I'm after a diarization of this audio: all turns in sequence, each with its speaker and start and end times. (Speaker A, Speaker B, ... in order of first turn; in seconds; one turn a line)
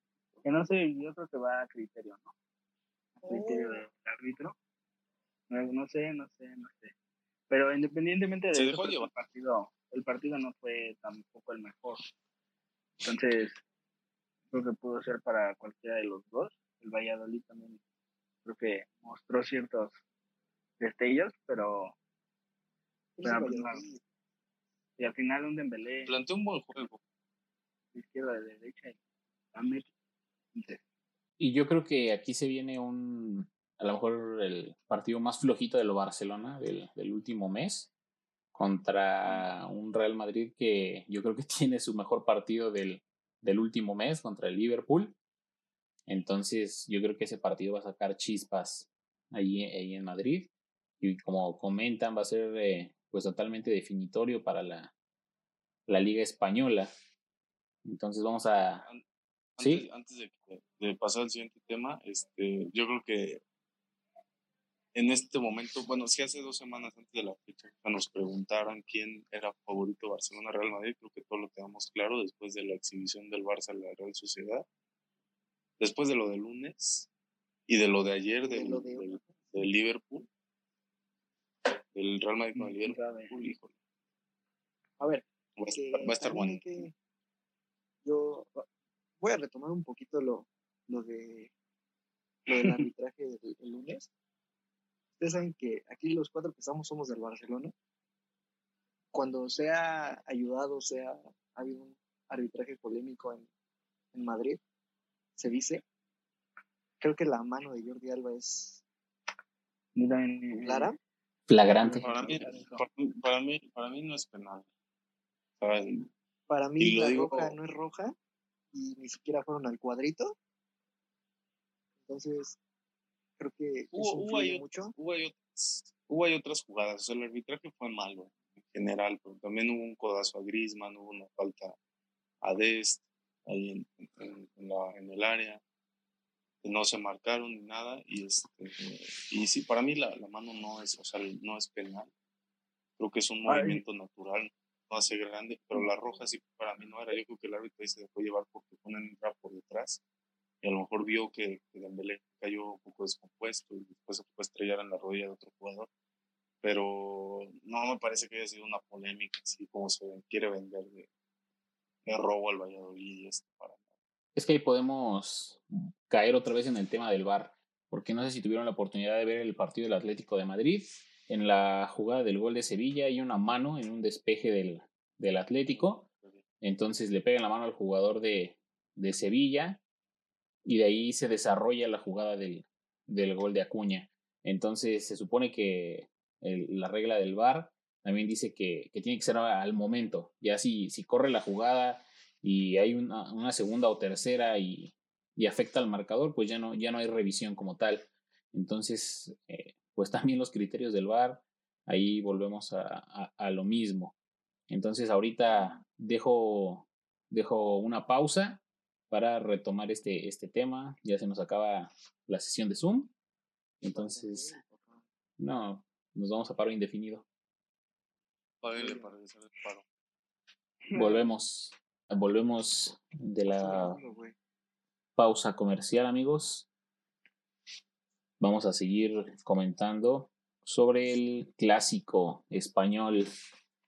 Speaker A: 0.4-2.3
Speaker B: 3.2-3.8
Speaker A: 3.2-4.5
Speaker A: 5.5-6.9
Speaker A: 7.5-12.0
Speaker C: 8.5-9.1
Speaker A: 13.0-13.6
Speaker A: 14.5-17.8
Speaker A: 18.4-20.0
Speaker A: 20.8-21.9
Speaker B: 23.2-24.0
Speaker A: 23.2-23.9
Speaker A: 25.0-26.1
Speaker C: 26.1-27.0
Speaker A: 27.9-29.0
Speaker A: 29.5-29.9
Speaker A: 30.5-30.8
Speaker D: 31.4-37.9
Speaker D: 38.5-45.2
Speaker D: 46.1-50.5
Speaker D: 51.0-54.9
Speaker D: 55.9-56.9
Speaker D: 57.9-58.9
Speaker C: 59.6-63.4
Speaker D: 59.6-59.9
Speaker C: 65.0-74.7
Speaker C: 75.8-77.1
Speaker C: 77.7-80.3
Speaker B: 78.5-79.5
Speaker C: 81.9-83.7
Speaker A: 82.5-83.4
Speaker B: 85.0-86.9
Speaker C: 85.6-86.9
Speaker B: 88.0-88.7
Speaker B: 89.2-91.5
Speaker B: 92.5-94.1
Speaker B: 95.2-97.7
Speaker B: 99.1-103.5
Speaker B: 104.1-104.6
Speaker B: 105.4-105.8
Speaker B: 107.0-108.8
Speaker A: 110.0-110.9
Speaker B: 110.6-111.0
Speaker D: 111.5-112.1
Speaker A: 111.7-112.8
Speaker C: 112.0-114.7
Speaker C: 115.6-116.1
Speaker B: 116.5-118.2
Speaker C: 116.8-117.6
Speaker B: 118.7-120.4
Speaker B: 122.1-122.6
Speaker B: 123.4-125.0
Speaker C: 123.9-131.8
Speaker C: 132.4-135.6
Speaker C: 136.6-142.1
Speaker C: 143.0-150.0
Speaker A: 143.5-143.8
Speaker C: 150.6-155.9
Speaker C: 156.6-161.1
Speaker C: 162.1-163.8
Speaker D: 164.3-176.0
Speaker C: 175.7-176.4
Speaker D: 176.6-179.8
Speaker D: 180.7-204.2
Speaker D: 204.7-213.1
Speaker D: 213.8-214.6
Speaker B: 213.9-215.0
Speaker D: 215.4-217.2
Speaker C: 218.6-219.8
Speaker B: 218.8-219.1
Speaker A: 220.9-221.2
Speaker D: 220.9-224.0
Speaker B: 223.6-224.3
Speaker D: 225.2-226.7
Speaker D: 228.4-233.3